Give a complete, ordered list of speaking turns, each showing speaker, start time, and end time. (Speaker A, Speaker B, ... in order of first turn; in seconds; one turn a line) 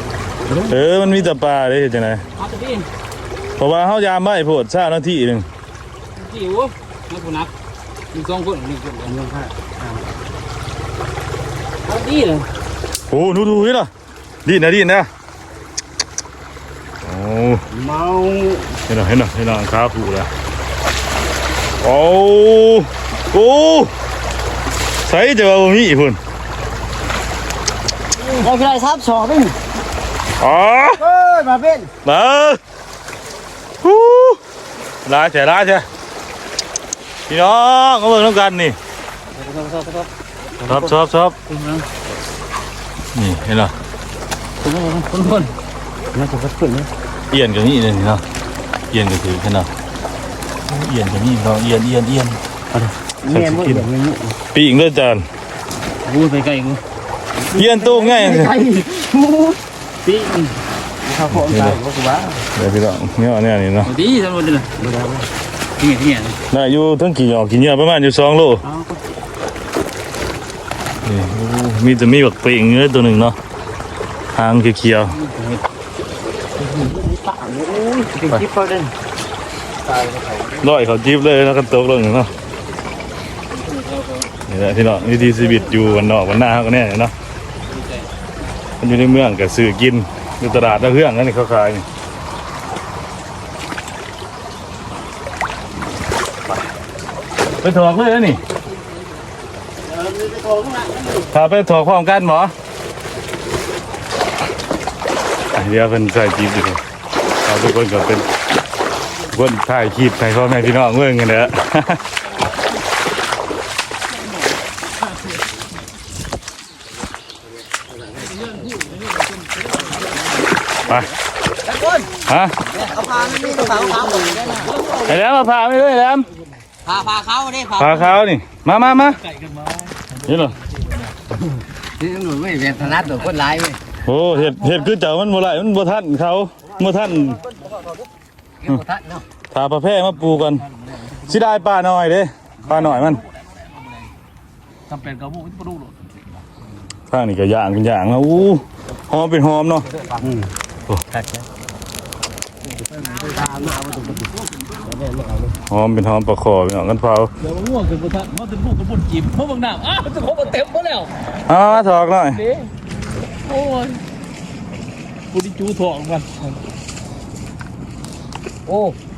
Speaker A: 0.5-0.7
Speaker B: 0.7-2.2
Speaker C: 2.4-2.9
Speaker B: 3.6-5.5
Speaker C: 6.2-7.5
Speaker C: 8.1-9.1
Speaker A: 9.0-10.0
Speaker C: 11.8-12.4
Speaker B: 13.1-13.9
Speaker B: 14.4-15.1
Speaker B: 17.0-17.6
Speaker A: 17.7-18.7
Speaker B: 18.9-20.3
Speaker B: 21.8-23.9
Speaker B: 25.0-26.2
Speaker A: 28.2-29.6
Speaker B: 30.4-31.0
Speaker A: 31.0-31.9
Speaker B: 32.0-32.6
Speaker B: 33.8-34.4
Speaker B: 35.0-35.9
Speaker B: 37.3-38.8
Speaker C: 39.3-40.1
Speaker B: 40.7-41.4
Speaker C: 41.5-41.8
Speaker B: 43.1-43.7
Speaker C: 44.6-45.5
Speaker A: 46.1-46.9
Speaker B: 47.3-48.2
Speaker B: 48.9-49.7
Speaker B: 50.7-52.4
Speaker A: 52.7-54.4
Speaker B: 53.3-53.9
Speaker B: 54.5-55.2
Speaker C: 56.0-56.8
Speaker A: 57.5-59.6
Speaker B: 57.5-58.5
Speaker C: 60.0-60.5
Speaker A: 61.0-62.4
Speaker B: 61.3-61.8
Speaker B: 62.5-63.9
Speaker C: 63.8-64.7
Speaker A: 64.8-65.3
Speaker C: 65.8-66.4
Speaker B: 66.5-68.6
Speaker A: 68.7-69.0
Speaker B: 71.0-73.3
Speaker B: 74.3-75.2
Speaker C: 75.1-75.6
Speaker A: 76.6-78.9
Speaker A: 79.8-80.7
Speaker B: 80.6-82.3
Speaker C: 83.5-84.3
Speaker B: 84.5-87.1
Speaker C: 85.2-85.8
Speaker C: 87.7-88.1
Speaker B: 88.8-91.8
Speaker B: 97.6-98.4
Speaker A: 99.9-101.3
Speaker B: 101.3-102.5
Speaker B: 105.5-106.8
Speaker B: 107.4-108.3
Speaker B: 109.3-112.0
Speaker C: 118.4-120.2
Speaker A: 121.7-122.0
Speaker B: 122.3-122.5
Speaker A: 122.7-124.7
Speaker C: 124.6-125.0
Speaker B: 125.0-126.3
Speaker A: 126.8-128.1
Speaker B: 127.8-129.2
Speaker C: 129.3-130.1
Speaker B: 130.2-130.5
Speaker A: 132.0-133.8
Speaker B: 134.0-137.4
Speaker A: 138.6-139.2
Speaker B: 139.5-140.6
Speaker C: 140.7-141.3
Speaker B: 141.3-143.2
Speaker C: 142.7-143.7
Speaker C: 144.9-146.1
Speaker B: 147.1-149.9
Speaker A: 150.2-150.5
Speaker A: 151.1-151.4
Speaker C: 152.8-154.9
Speaker A: 153.1-154.3
Speaker A: 154.9-155.3
Speaker B: 155.7-157.3
Speaker C: 157.4-161.1
Speaker B: 161.4-162.4
Speaker C: 162.4-162.7
Speaker C: 163.4-164.0
Speaker C: 165.3-166.6
Speaker A: 168.7-168.9